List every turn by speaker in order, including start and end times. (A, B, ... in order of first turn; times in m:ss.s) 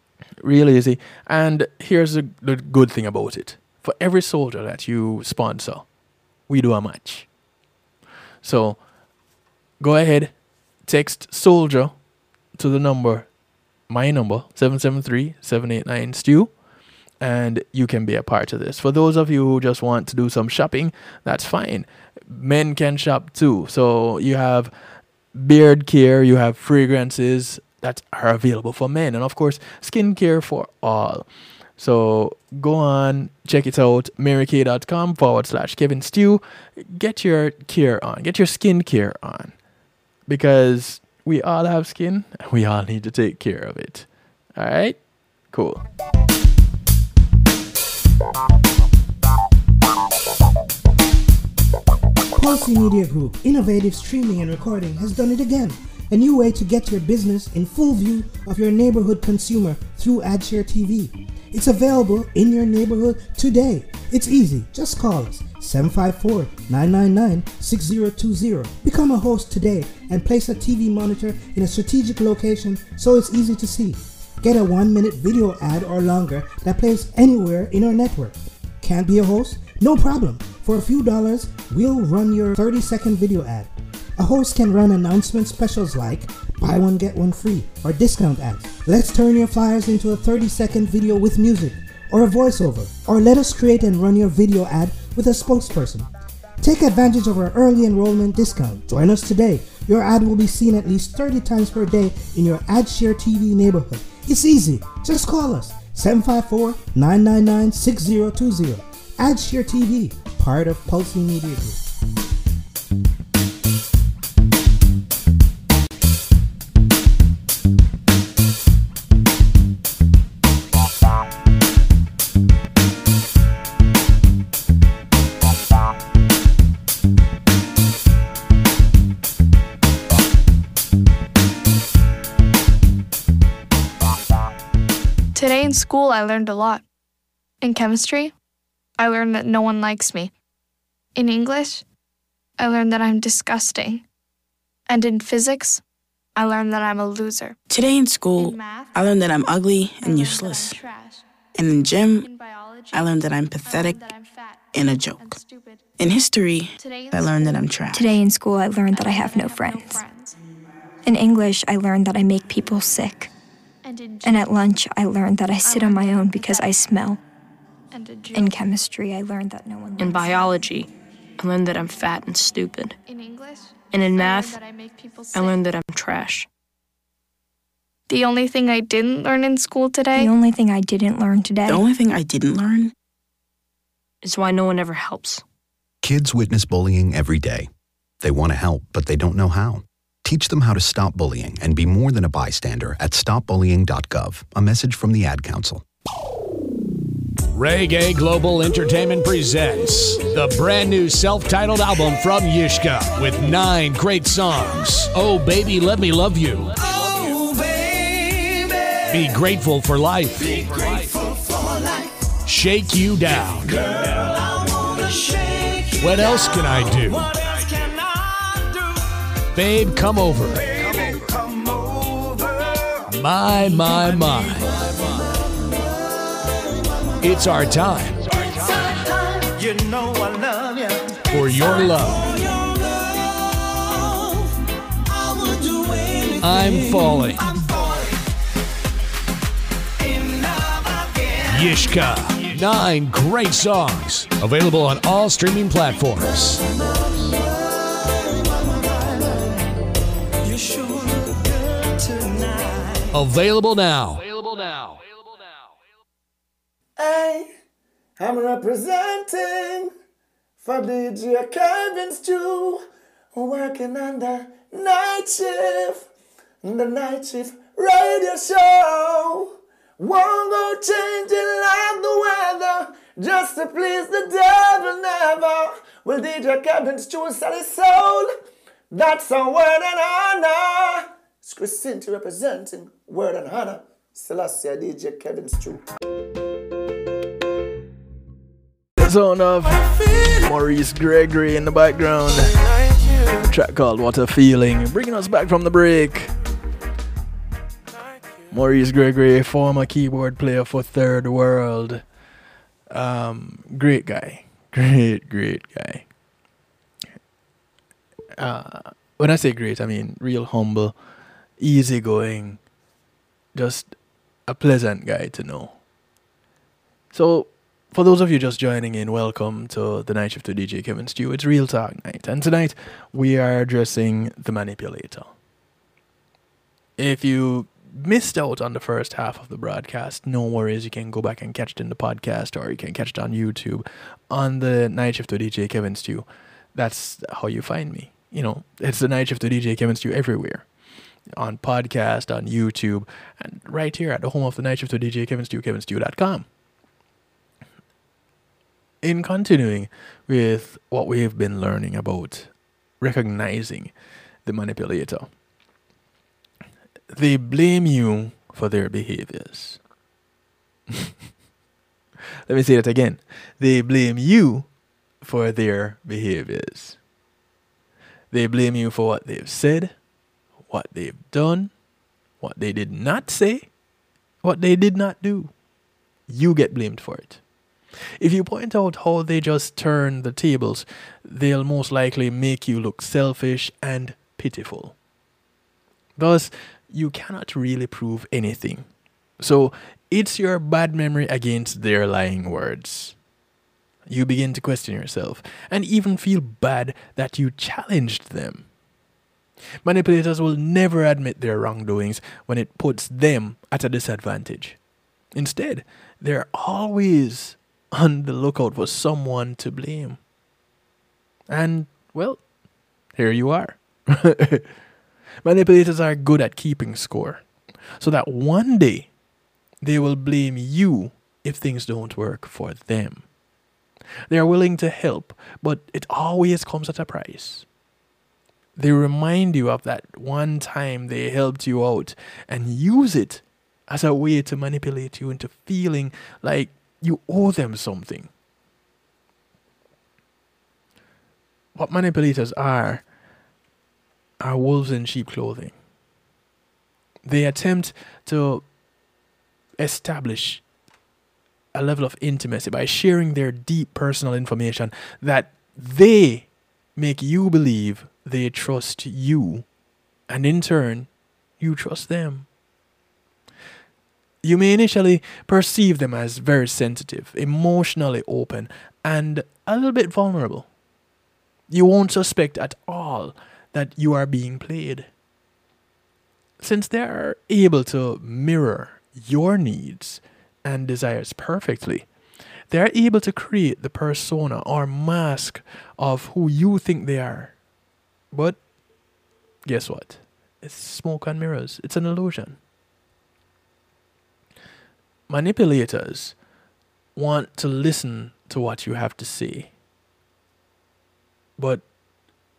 0:00.4-0:05.9 A
0:06.5-0:07.3 A
0:08.4-0:08.8 A
0:09.8-0:10.3 A
0:10.8-0:12.0 A
0:12.6-0:13.3 A
0:13.9-0:16.5 A
0:17.2-0:24.7 A
0:25.3-0:31.2 A
0:31.8-0:39.6 A
0:40.3-0:45.0 A
0:45.5-0:45.8 A
0:52.4-1:36.1 B
1:36.6-1:51.8 B
2:15.4-2:16.8 C
2:17.6-2:18.3 C
2:19.0-2:20.3 C
2:21.2-2:21.8 C
2:22.6-2:24.0 C
2:24.9-2:25.8 C
2:26.4-2:27.6 C
2:27.7-2:30.8 D
2:28.4-2:29.3 C
2:30.0-2:31.2 C
2:31.6-2:32.3 D
2:32.2-2:33.1 C
2:32.9-2:34.0 D
2:33.6-2:35.9 C
2:34.7-2:35.4 D
2:36.0-2:38.2 D
2:36.8-2:37.6 C
2:37.9-2:40.0 E
2:38.9-2:40.4 C
2:41.0-2:43.3 E
2:43.8-2:44.5 C
2:44.2-2:47.2 E
2:45.6-2:46.8 C
2:47.9-2:48.6 C
2:48.3-2:50.4 E
2:50.0-2:53.0 F
2:53.1-2:55.6 C
2:53.9-2:54.6 F
2:55.3-2:56.5 F
2:58.1-3:00.3 C
3:00.2-3:01.9 E
3:01.7-3:02.9 D
3:04.2-3:05.4 F
3:06.0-3:07.7 G
3:08.2-3:15.8 G
3:17.5-3:26.7 H
3:26.9-3:29.2 I
3:29.1-3:30.6 H
3:30.4-3:32.3 I
3:32.5-3:34.2 H
3:33.7-3:39.1 I
3:36.0-3:37.3 H
3:39.5-3:40.7 H
3:40.6-3:43.1 I
3:43.1-3:44.7 H
3:43.9-3:45.8 I
3:47.2-3:48.2 H
3:48.3-3:54.5 I
3:51.3-3:52.3 H
3:55.1-3:58.2 I
3:56.4-3:57.5 H
4:00.0-4:01.8 I
4:01.5-4:06.6 H
4:07.0-4:09.7 I
4:10.4-4:13.1 I
4:13.1-4:15.0 H
4:17.0-4:17.5 I
4:18.2-4:19.9 I
4:20.6-4:22.8 I
4:23.3-4:26.1 I
4:26.6-4:38.3 I
4:38.9-4:45.8 I
4:49.0-4:52.6 A
4:53.3-4:56.3 A
4:58.5-5:02.0 A
5:02.9-5:06.1 A
5:08.4-5:11.0 A
5:11.6-5:12.6 A
5:13.6-5:13.9 A
5:14.5-5:15.8 A
5:17.1-5:25.3 A
5:27.0-5:40.7 A
5:41.4-5:46.4 A
5:49.0-5:53.9 A
5:54.4-5:55.3 A
5:57.1-5:59.8 A
6:02.5-6:04.7 A
6:05.2-6:07.0 A
6:08.3-6:10.0 A
6:10.7-6:11.7 A
6:12.4-6:13.7 A
6:14.4-6:15.5 A
6:16.3-6:17.4 A
6:18.2-6:25.0 A
6:26.2-6:28.9 A
6:29.4-6:33.2 A
6:34.1-6:38.7 A
6:39.8-6:44.8 A
6:45.3-6:50.2 A
6:51.5-6:52.4 A
6:53.2-6:54.7 A
6:55.4-6:57.4 A
6:58.0-6:59.1 A
6:59.8-7:03.3 A
7:04.3-7:07.7 A
7:08.8-7:18.3 A
7:21.8-7:23.0 A
7:24.4-7:25.7 A
7:27.2-7:28.7 A
7:29.8-7:30.6 A
7:31.8-7:39.7 A
7:40.3-7:41.1 A
7:41.6-7:42.5 A
7:44.4-7:50.7 A
7:51.7-7:55.1 A
7:56.6-8:02.1 A
8:02.7-8:07.6 A
8:08.3-8:08.6 A
8:09.7-8:12.6 A
8:15.3-8:16.4 A
8:17.2-8:19.7 A
8:21.6-8:21.8 A